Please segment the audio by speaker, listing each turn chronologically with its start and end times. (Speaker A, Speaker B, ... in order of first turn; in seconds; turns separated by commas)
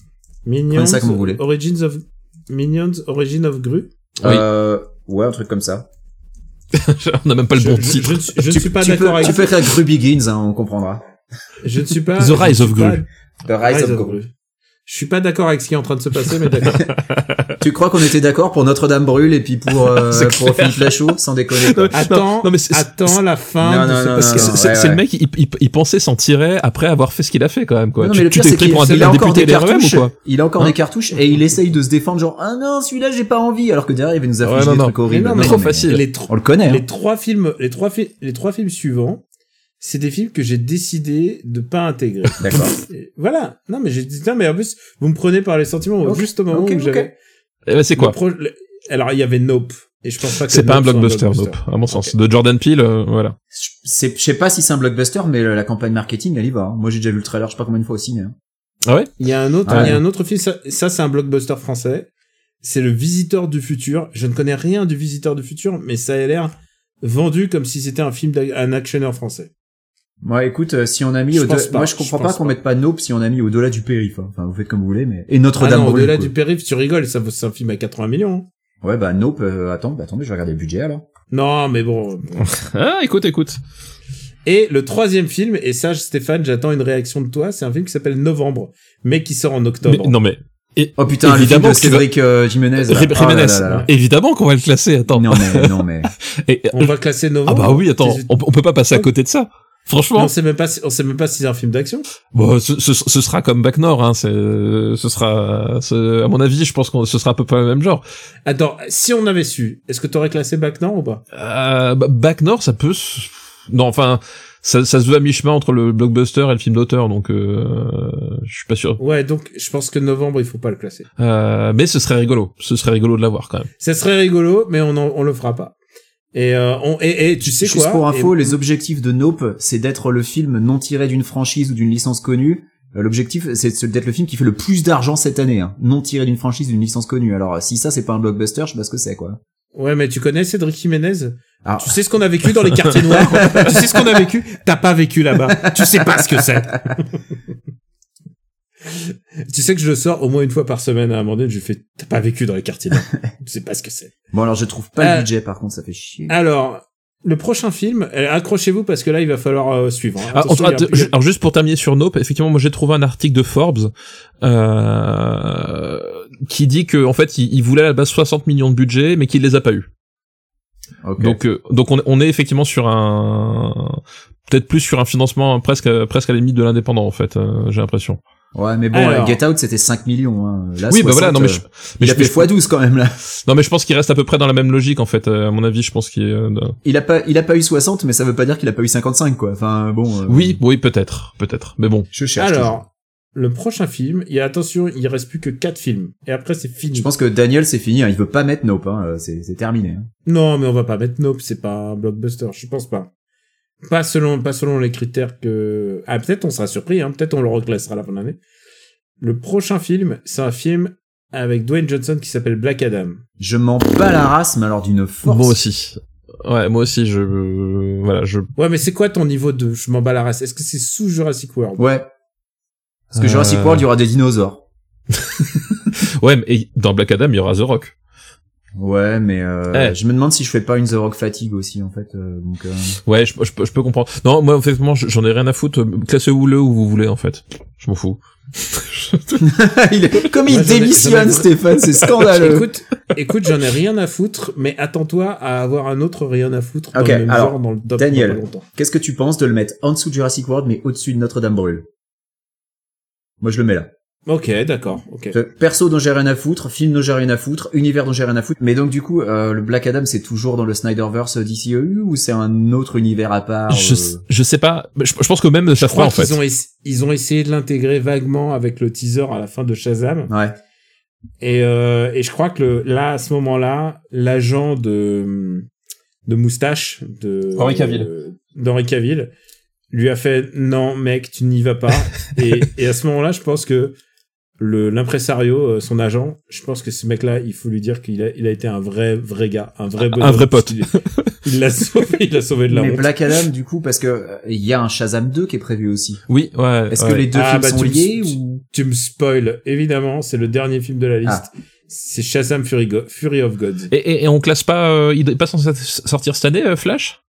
Speaker A: 0.4-3.9, Speaker B: 0.7-1.4, Speaker B: 4.2-5.9, Speaker C: 6.7-8.3, Speaker A: 7.6-9.4, Speaker B: 8.5-11.0, Speaker A: 11.6-13.0, Speaker C: 12.2-13.0, Speaker B: 13.4-14.2, Speaker A: 13.6-14.3, Speaker A: 14.8-16.9, Speaker C: 17.1-17.5, Speaker B: 17.6-21.9, Speaker C: 19.9-21.0, Speaker C: 21.6-23.2, Speaker A: 21.9-24.6, Speaker B: 23.6-25.0, Speaker C: 24.2-30.7, Speaker B: 28.0-36.8, Speaker C: 34.4-36.0, Speaker A: 35.1-39.2, Speaker A: 39.8-47.1, Speaker B: 42.4-42.8, Speaker B: 46.0-47.1, Speaker C: 47.7-48.1, Speaker A: 48.0-51.6, Speaker C: 50.5-53.4, Speaker B: 53.5-58.3, Speaker C: 58.9-59.1, Speaker A: 59.2-62.1, Speaker B: 59.7-60.0, Speaker C: 59.7-60.0, Speaker A: 62.6-69.5, Speaker B: 70.2-76.3, Speaker A: 71.3-72.6, Speaker A: 75.6-78.5, Speaker B: 78.8-81.0, Speaker A: 81.3-82.4, Speaker C: 82.4-83.6, Speaker A: 84.4-90.2, Speaker C: 89.8-92.1, Speaker B: 91.0-93.9, Speaker C: 92.8-95.8, Speaker B: 95.1-96.1, Speaker C: 96.4-96.9, Speaker A: 96.7-98.3, Speaker C: 97.5-100.3, Speaker A: 100.2-102.1, Speaker C: 102.3-108.0, Speaker A: 108.5-111.2, Speaker C: 111.3-119.0, Speaker A: 119.0-121.1, Speaker C: 121.2-123.7, Speaker A: 123.8-125.7, Speaker A: 126.3-128.6, Speaker B: 127.6-139.4, Speaker A: 139.7-147.0, Speaker B: 141.6-142.0, Speaker B: 143.2-143.7, Speaker C: 143.2-143.6, Speaker B: 145.6-146.4, Speaker A: 148.9-154.1, Speaker B: 154.3-156.3, Speaker A: 155.0-155.3, Speaker A: 156.3-161.1, Speaker C: 160.3-163.9, Speaker C: 164.4-169.9, Speaker B: 171.0-171.4, Speaker C: 171.2-178.2, Speaker B: 178.5-183.2, Speaker A: 178.9-179.4, Speaker C: 180.9-182.5, Speaker C: 183.4-186.7, Speaker B: 186.8-190.6, Speaker C: 190.3-192.1, Speaker B: 192.1-192.8, Speaker A: 192.4-197.1, Speaker B: 196.9-200.1, Speaker A: 200.2-203.1, Speaker A: 203.8-208.4, Speaker A: 209.2-213.2, Speaker B: 213.4-215.6, Speaker C: 215.2-218.5, Speaker A: 218.6-221.9, Speaker B: 221.8-222.1, Speaker B: 223.1-224.6, Speaker C: 223.1-223.8, Speaker C: 225.2-227.9, Speaker B: 228.8-233.0, Speaker C: 233.1-239.4, Speaker B: 239.4-242.7, Speaker A: 240.5-241.5, Speaker A: 242.2-248.6, Speaker B: 246.9-251.9, Speaker B: 253.4-253.9, Speaker A: 254.3-255.3, Speaker B: 255.3-264.2, Speaker C: 263.7-266.4, Speaker A: 265.8-270.3, Speaker B: 270.3-270.6, Speaker A: 271.4-275.7, Speaker A: 276.2-279.3, Speaker C: 277.6-278.1, Speaker A: 279.9-283.9, Speaker A: 284.6-293.1, Speaker C: 290.1-291.3, Speaker B: 292.7-296.2, Speaker C: 296.3-297.2, Speaker B: 296.9-298.6, Speaker A: 297.3-303.9, Speaker C: 303.9-307.2